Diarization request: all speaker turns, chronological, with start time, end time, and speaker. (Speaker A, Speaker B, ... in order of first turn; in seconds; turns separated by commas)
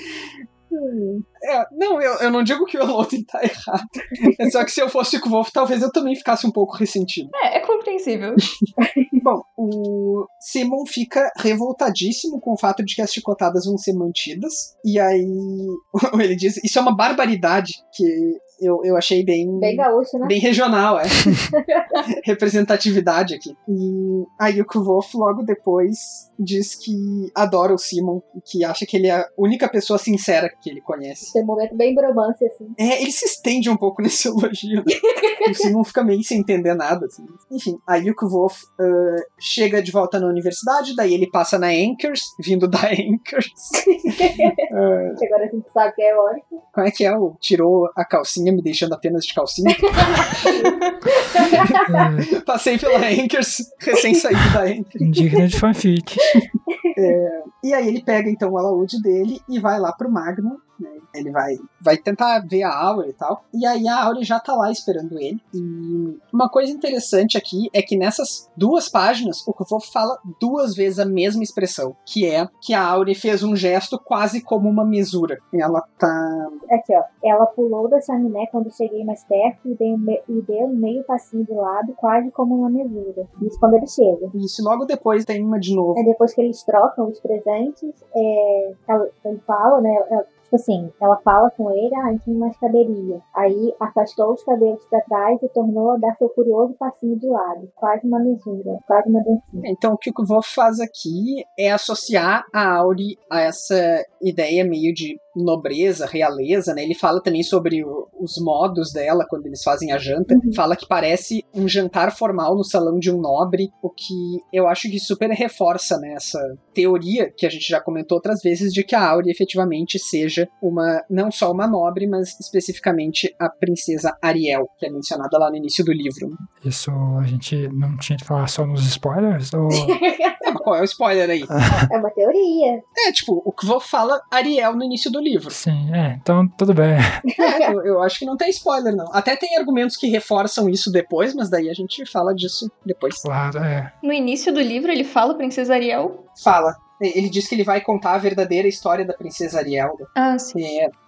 Speaker A: 0.7-7.3, Speaker B: 7.3-8.4, Speaker C: 8.8-9.2, Speaker A: 9.2-21.4, Speaker C: 19.6-20.4, Speaker C: 21.5-22.0, Speaker A: 22.2-31.3, Speaker C: 31.3-32.8, Speaker A: 32.8-45.2, Speaker C: 35.1-35.6, Speaker C: 43.8-44.6, Speaker C: 45.2-46.4, Speaker A: 46.7-50.5, Speaker C: 49.9-52.1, Speaker A: 51.6-55.0, Speaker D: 51.8-52.3, Speaker D: 55.0-56.4, Speaker C: 56.7-57.1, Speaker A: 57.0-76.6, Speaker C: 76.7-84.3, Speaker A: 84.3-86.0, Speaker C: 85.9-99.7, Speaker A: 99.6-126.4, Speaker C: 110.3-110.6, Speaker D: 126.6-130.0, Speaker C: 129.7-130.6, Speaker A: 130.4-131.5, Speaker C: 131.7-132.8, Speaker A: 132.9-135.6, Speaker D: 135.5-137.2, Speaker A: 137.4-143.3, Speaker C: 137.4-137.7, Speaker D: 143.2-143.9, Speaker B: 144.0-146.2, Speaker A: 146.4-150.9, Speaker B: 150.1-150.6